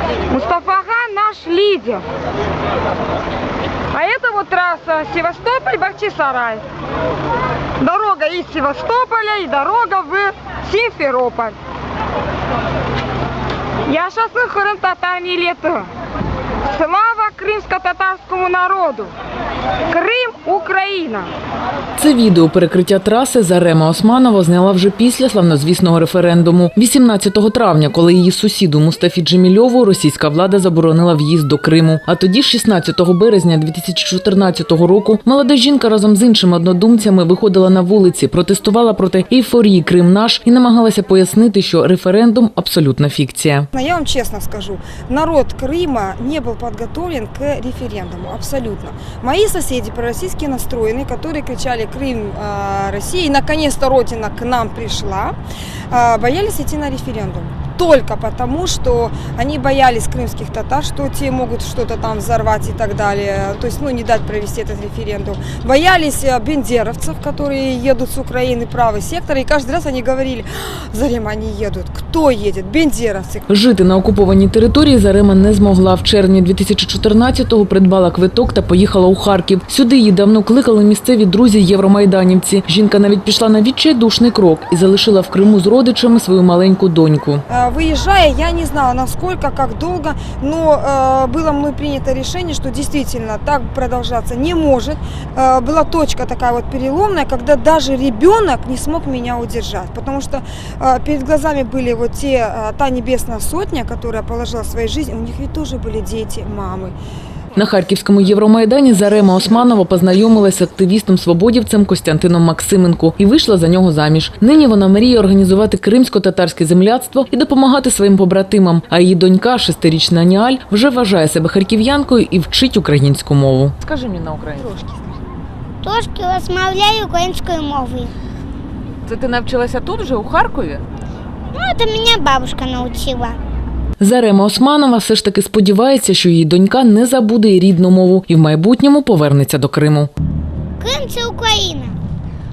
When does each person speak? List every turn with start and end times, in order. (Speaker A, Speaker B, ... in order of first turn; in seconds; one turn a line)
Speaker A: 0.3-2.0
Speaker A: 3.9-6.6
Speaker A: 7.8-11.6
Speaker A: 13.9-15.9
Speaker A: 16.6-19.1
Speaker A: 19.9-21.3
Speaker B: 22.0-43.7
Speaker C: 43.7-55.4
Speaker C: 55.9-73.5
Speaker B: 73.5-87.4
Speaker C: 87.5-107.0
Speaker B: 107.6-125.0
Speaker D: 125.8-128.1
Speaker B: 129.1-130.8
Speaker D: 131.5-133.4
Speaker B: 134.0-140.1
Speaker D: 140.8-142.0